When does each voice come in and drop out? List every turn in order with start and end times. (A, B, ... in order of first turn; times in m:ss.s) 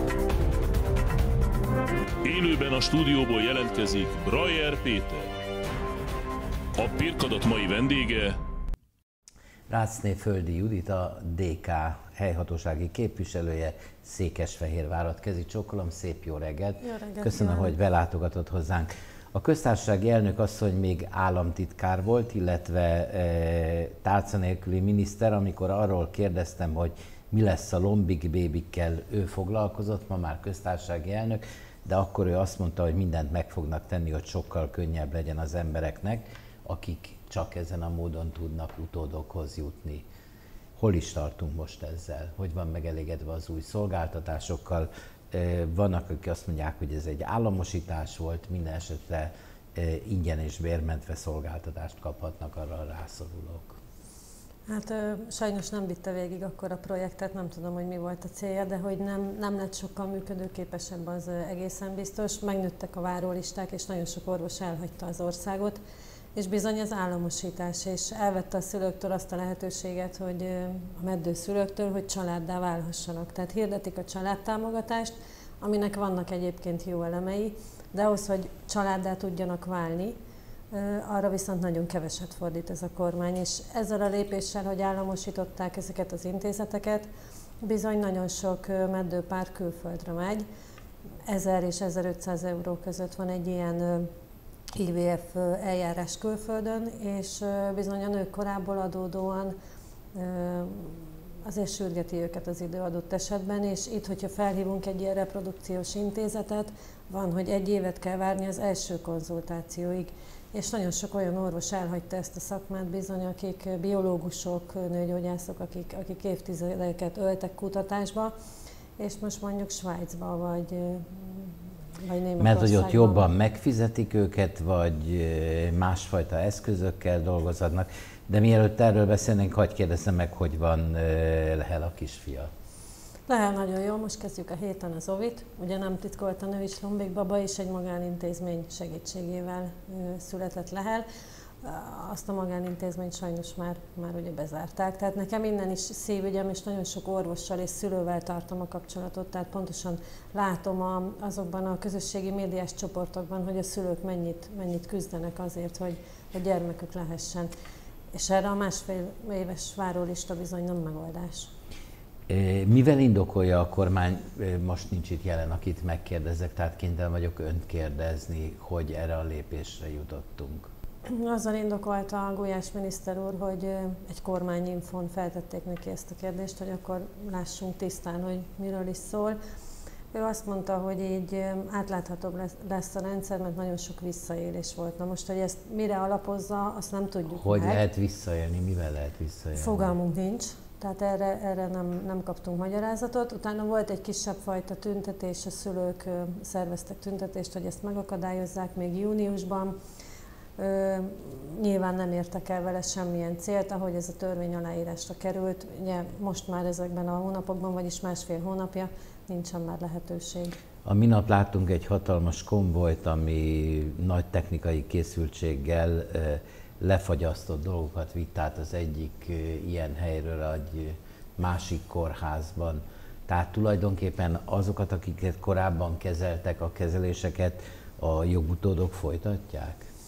0:02.2-0:05.3 A
0:06.8-0:08.4 A
0:09.7-0:40.0 B
0:16.8-0:17.8 C
0:40.8-0:53.8 B
0:54.7-1:05.8 C
1:06.4-1:20.2 C
1:20.7-1:27.1 C
1:27.6-1:30.4 C
1:31.3-1:34.1 C
1:34.8-1:39.5 C
1:40.1-1:58.3 C
1:59.0-2:03.2 C
2:02.4-2:12.5 B
2:13.3-2:21.0 C
2:21.6-2:37.5 C
2:38.1-2:41.5 C
2:42.3-2:50.7 B
2:51.1-2:59.4 C
3:00.1-3:07.8 C
3:07.3-3:09.9 B
3:09.5-3:19.8 C
3:20.6-3:30.6 C
3:30.8-3:49.9 B